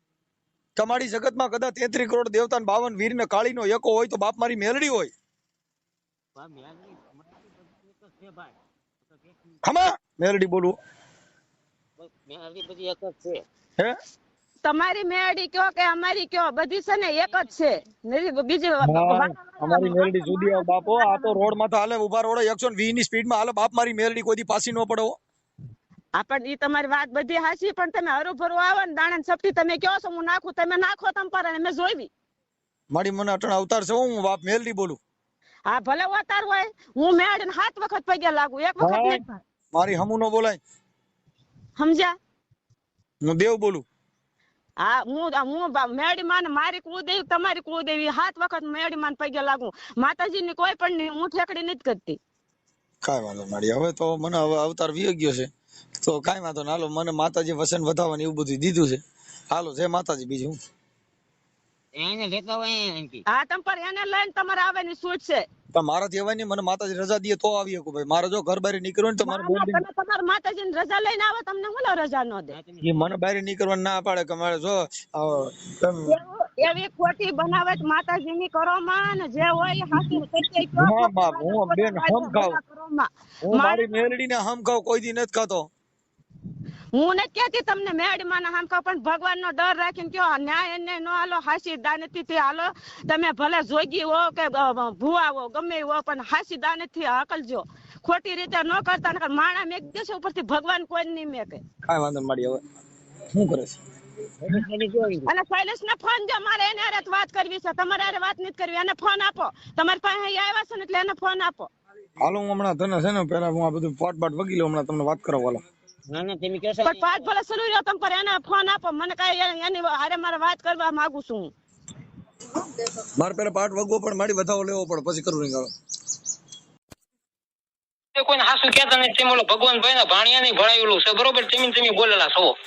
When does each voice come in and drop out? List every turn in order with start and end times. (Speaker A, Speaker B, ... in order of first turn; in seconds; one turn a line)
Speaker A: 0.8-5.1
Speaker B: 6.3-9.6
Speaker A: 9.6-10.8
Speaker B: 12.0-13.4
Speaker C: 14.6-21.4
Speaker A: 18.8-25.2
Speaker C: 26.1-32.1
Speaker A: 32.9-35.0
Speaker C: 35.7-39.4
Speaker A: 38.8-40.6
Speaker C: 41.8-42.1
Speaker A: 43.2-43.8
Speaker C: 44.8-52.2
Speaker A: 53.0-60.6
Speaker B: 62.0-63.2
Speaker C: 63.3-65.5
Speaker A: 65.7-69.8
Speaker C: 69.2-72.6
Speaker B: 72.5-72.9
Speaker A: 72.8-76.2
Speaker C: 76.1-84.1
Speaker A: 80.7-82.6
Speaker A: 83.4-85.7
Speaker C: 86.9-101.6
Speaker A: 101.8-102.6
Speaker A: 103.3-103.8
Speaker B: 104.4-105.3
Speaker C: 105.2-111.7
Speaker A: 112.2-115.6
Speaker B: 116.1-117.0
Speaker C: 116.8-121.5
Speaker A: 122.8-125.7
Speaker D: 128.2-132.6